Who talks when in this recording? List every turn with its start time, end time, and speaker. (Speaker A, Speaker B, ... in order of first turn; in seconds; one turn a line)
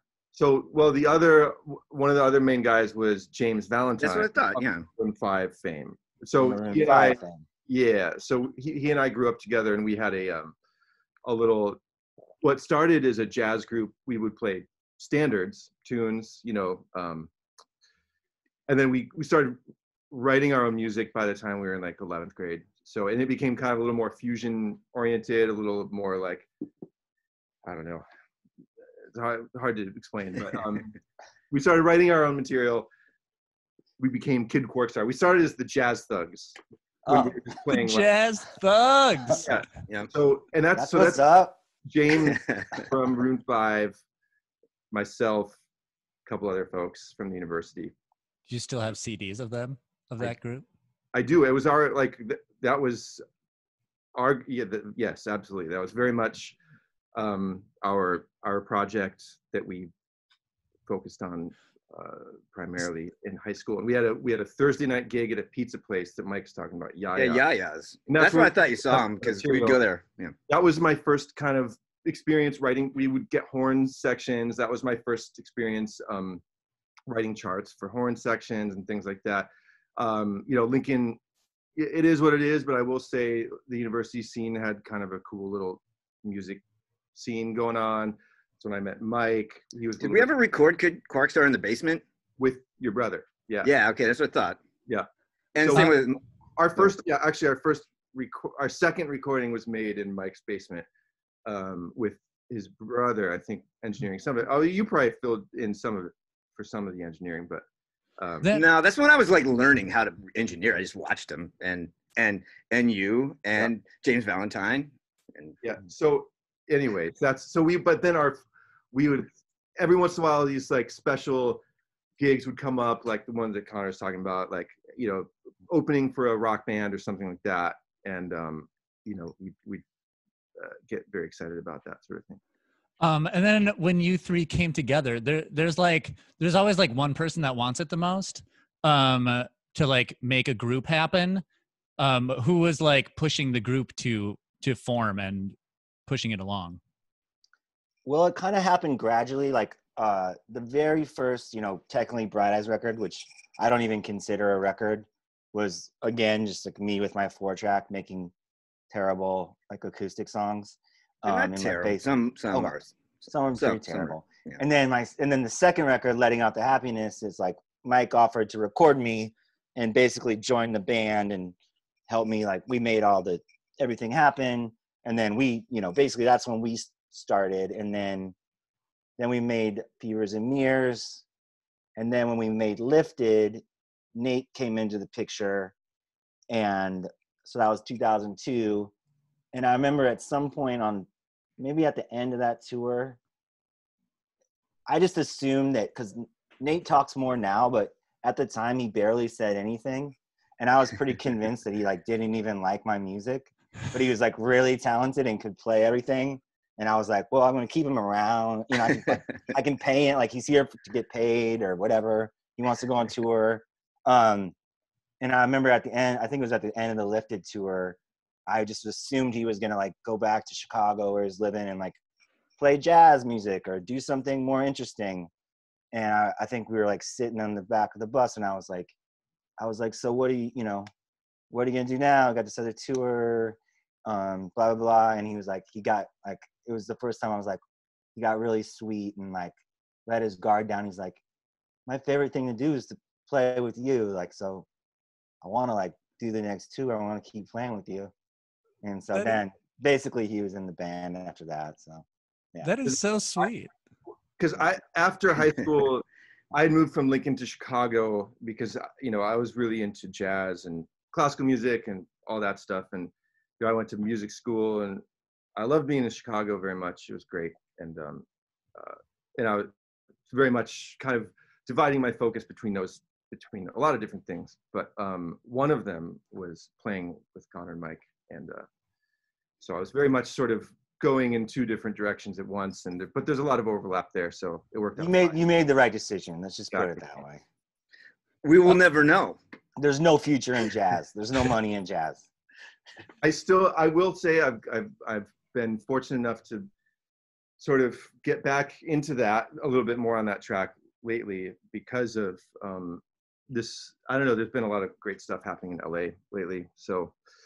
Speaker A: 0.3-10.6
Speaker B: 4.0-4.9
Speaker C: 6.4-7.5
Speaker A: 11.3-11.8
Speaker A: 12.4-17.3
Speaker A: 18.7-19.6
Speaker A: 20.1-26.5
Speaker A: 27.6-28.0
Speaker A: 29.1-30.9
Speaker A: 31.5-32.9
Speaker A: 34.0-36.6
Speaker C: 37.1-37.4
Speaker A: 37.1-38.1
Speaker D: 37.7-39.5
Speaker A: 39.4-41.2
Speaker C: 40.8-41.6
Speaker A: 41.9-44.0
Speaker B: 42.2-42.5
Speaker A: 44.9-45.6
Speaker A: 46.3-47.9
Speaker D: 48.5-50.7
Speaker A: 51.1-53.2
Speaker A: 54.1-56.6
Speaker A: 57.1-59.9
Speaker A: 60.9-67.5
Speaker B: 67.2-70.3
Speaker A: 68.1-69.8
Speaker A: 70.5-76.4
Speaker A: 77.1-81.2
Speaker A: 81.8-86.6
Speaker A: 87.2-90.3
Speaker B: 90.0-92.0
Speaker A: 92.4-93.7
Speaker B: 93.6-94.6
Speaker B: 95.5-96.2
Speaker A: 95.6-100.9
Speaker A: 101.5-107.6
Speaker A: 108.2-108.5
Speaker B: 108.5-115.6
Speaker A: 115.6-121.6
Speaker A: 122.2-129.8
Speaker A: 130.6-132.4
Speaker D: 133.0-141.4
Speaker D: 142.0-145.6
Speaker D: 146.1-146.8
Speaker C: 148.1-158.3
Speaker C: 158.9-171.6
Speaker B: 161.3-164.6
Speaker C: 172.1-178.3
Speaker C: 179.2-181.2
Speaker C: 182.0-183.6
Speaker C: 184.2-185.7
Speaker C: 186.5-188.9
Speaker C: 189.5-191.1
Speaker C: 191.6-193.2
Speaker C: 194.9-214.5
Speaker C: 215.2-222.0
Speaker C: 222.6-225.3
Speaker C: 225.9-228.9
Speaker C: 229.6-230.9
Speaker C: 231.5-237.6
Speaker C: 238.2-239.5
Speaker C: 240.1-241.2
Speaker C: 241.9-244.7
Speaker C: 245.4-248.1
Speaker C: 248.8-252.7
Speaker D: 252.6-253.7
Speaker A: 252.8-253.4
Speaker A: 254.4-265.0
Speaker A: 265.6-268.2
Speaker A: 268.8-269.7
Speaker A: 270.3-278.6
Speaker A: 279.6-285.4
Speaker C: 285.0-287.4
Speaker A: 286.7-287.0
Speaker B: 288.4-289.4
Speaker C: 289.8-292.2
Speaker A: 293.2-296.7
Speaker A: 297.6-307.2